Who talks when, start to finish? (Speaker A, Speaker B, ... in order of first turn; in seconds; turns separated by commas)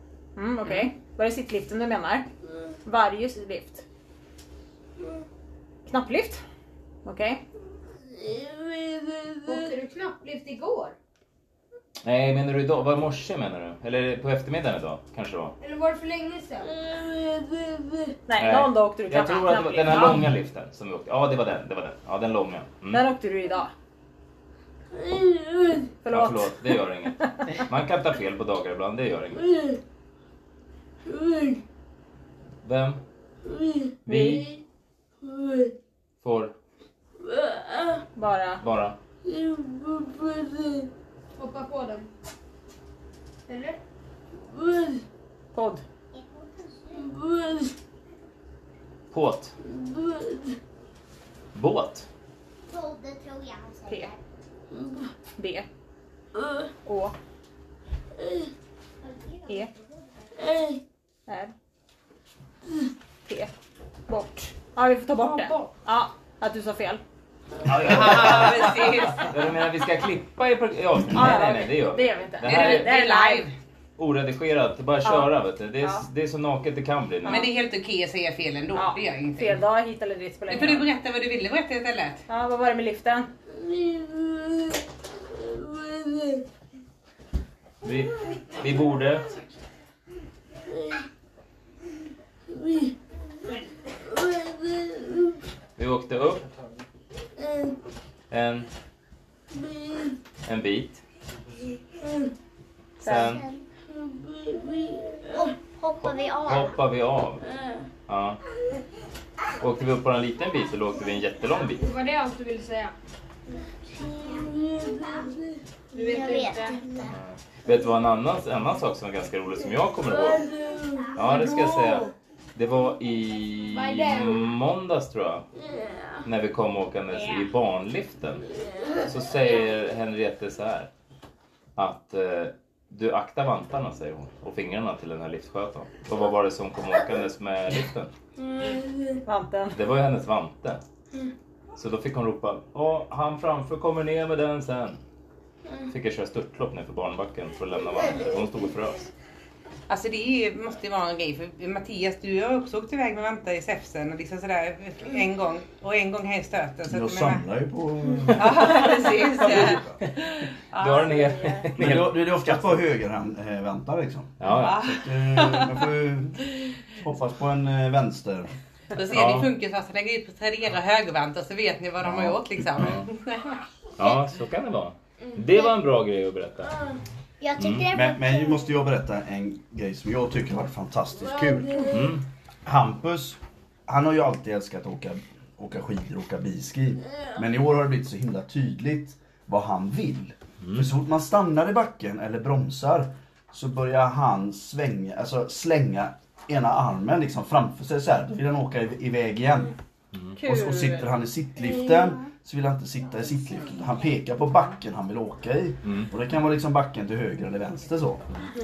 Speaker A: 0.3-2.3, Speaker A: 2.8-3.8, Speaker A: 5.8-6.4, Speaker A: 7.0-7.4, Speaker B: 9.4-10.9, Speaker C: 12.0-15.6, Speaker B: 15.6-16.7, Speaker A: 18.3-20.3, Speaker C: 18.4-23.0, Speaker A: 22.9-23.7, Speaker A: 26.0-26.6, Speaker C: 26.1-29.5, Speaker C: 32.6-33.0, Speaker C: 34.0-34.4, Speaker A: 34.1-34.4, Speaker C: 36.2-36.5, Speaker A: 38.1-38.6, Speaker C: 38.6-39.0, Speaker B: 41.4-42.1, Speaker B: 43.5-43.8, Speaker A: 45.5-45.8, Speaker D: 46.1-47.1, Speaker C: 49.1-49.5, Speaker C: 51.5-52.1, Speaker D: 52.7-54.1, Speaker A: 53.9-54.1, Speaker A: 55.4-55.7, Speaker A: 56.8-57.1, Speaker A: 61.3-61.5, Speaker A: 63.2-63.5, Speaker A: 64.1-67.0, Speaker C: 67.7-72.9, Speaker E: 67.8-69.3, Speaker A: 71.1-73.5, Speaker E: 72.4-73.5, Speaker C: 74.0-77.5, Speaker A: 75.0-76.0, Speaker E: 77.3-79.6, Speaker A: 78.7-80.8, Speaker E: 80.5-82.2, Speaker A: 82.3-83.3, Speaker C: 87.8-89.3, Speaker C: 95.8-96.5, Speaker C: 98.3-98.7, Speaker C: 100.4-101.0, Speaker C: 103.0-103.5, Speaker A: 103.0-103.3, Speaker D: 103.2-103.6, Speaker D: 105.3-106.7, Speaker C: 106.0-107.5, Speaker C: 108.1-108.4, Speaker C: 109.6-111.8, Speaker B: 111.8-112.9, Speaker B: 115.9-116.8, Speaker D: 115.9-117.1, Speaker C: 117.0-120.5, Speaker C: 121.1-125.5, Speaker B: 123.7-124.4, Speaker C: 126.2-128.4, Speaker C: 129.1-130.9, Speaker C: 131.8-138.1, Speaker A: 139.2-139.8, Speaker C: 139.7-140.8, Speaker C: 141.8-145.0, Speaker C: 145.9-149.1, Speaker E: 149.9-157.4, Speaker F: 156.9-158.7, Speaker E: 158.3-159.8, Speaker C: 159.4-162.7, Speaker F: 159.5-159.9, Speaker E: 160.7-161.2, Speaker F: 161.8-168.5, Speaker C: 164.4-164.8, Speaker E: 164.5-165.8, Speaker E: 168.9-174.2, Speaker C: 169.1-169.5, Speaker C: 172.0-173.1, Speaker C: 174.0-176.8, Speaker D: 177.4-178.6, Speaker C: 177.6-177.9, Speaker F: 177.9-181.9, Speaker C: 181.9-182.2, Speaker F: 182.7-199.7, Speaker C: 190.6-190.9, Speaker C: 200.1-200.4, Speaker A: 200.4-201.0, Speaker F: 200.4-208.2, Speaker C: 205.8-206.1